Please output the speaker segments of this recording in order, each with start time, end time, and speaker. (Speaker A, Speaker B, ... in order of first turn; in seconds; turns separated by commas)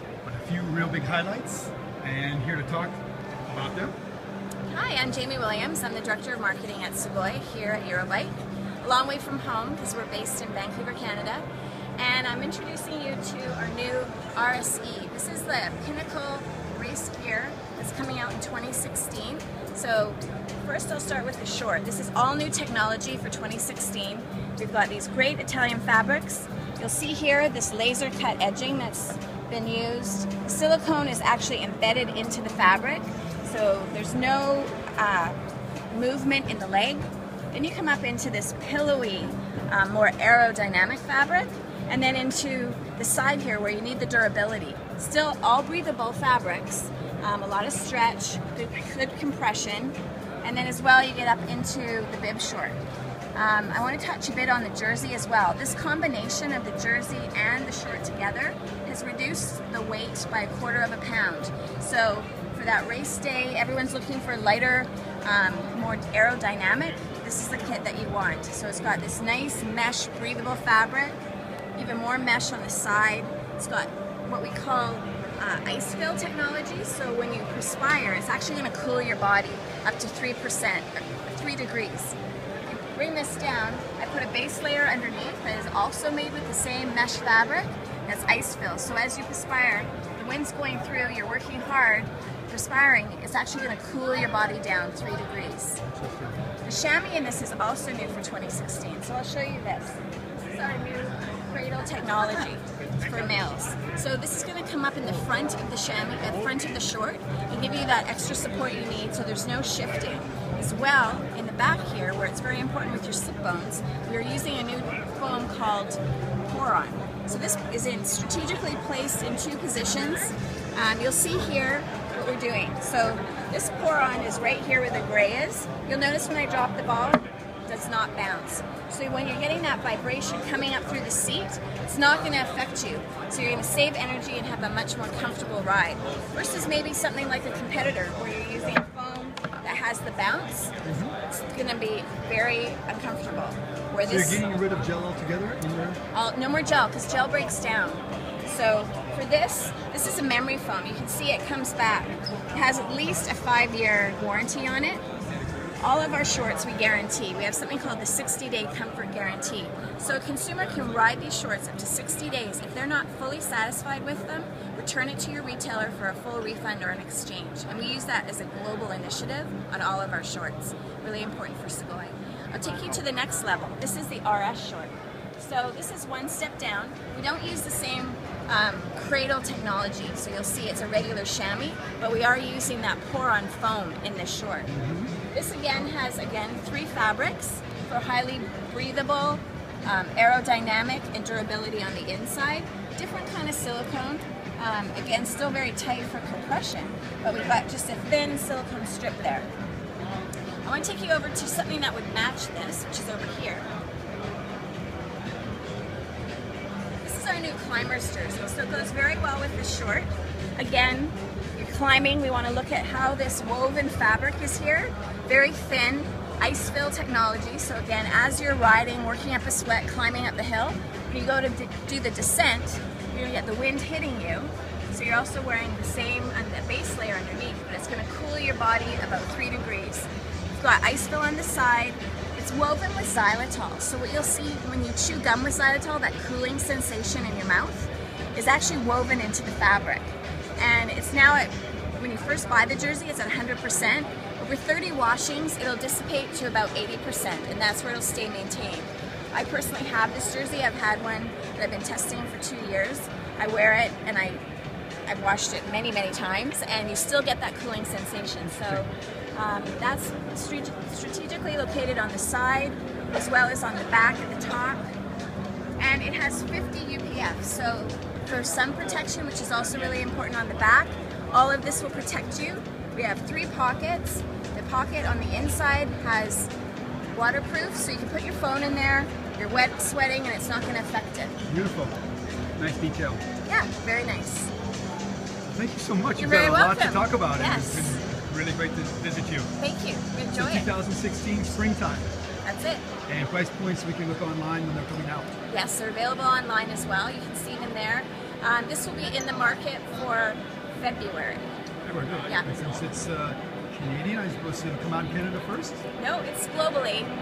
Speaker A: 0.2-4.0, Speaker B: 4.7-11.4, Speaker B: 12.0-35.4, Speaker B: 35.9-52.8, Speaker B: 53.4-71.2, Speaker B: 71.8-82.2, Speaker B: 82.7-95.8, Speaker A: 95.9-96.4, Speaker B: 96.7-140.7, Speaker A: 140.8-141.2, Speaker B: 141.3-144.4, Speaker A: 144.1-146.0, Speaker B: 146.1-155.0, Speaker B: 155.8-184.7, Speaker A: 184.7-185.1, Speaker B: 185.3-199.5, Speaker B: 200.6-203.7, Speaker B: 207.0-254.4, Speaker B: 255.1-264.9, Speaker A: 258.5-258.8, Speaker B: 265.8-276.5, Speaker B: 277.1-281.4, Speaker A: 281.5-282.0, Speaker A: 282.6-283.2, Speaker B: 283.5-284.5, Speaker A: 285.5-289.5, Speaker B: 286.2-288.0, Speaker B: 289.6-290.7, Speaker A: 290.3-292.1, Speaker B: 292.4-292.9, Speaker A: 293.1-295.3, Speaker B: 295.5-301.5, Speaker A: 301.9-305.8, Speaker B: 306.0-307.1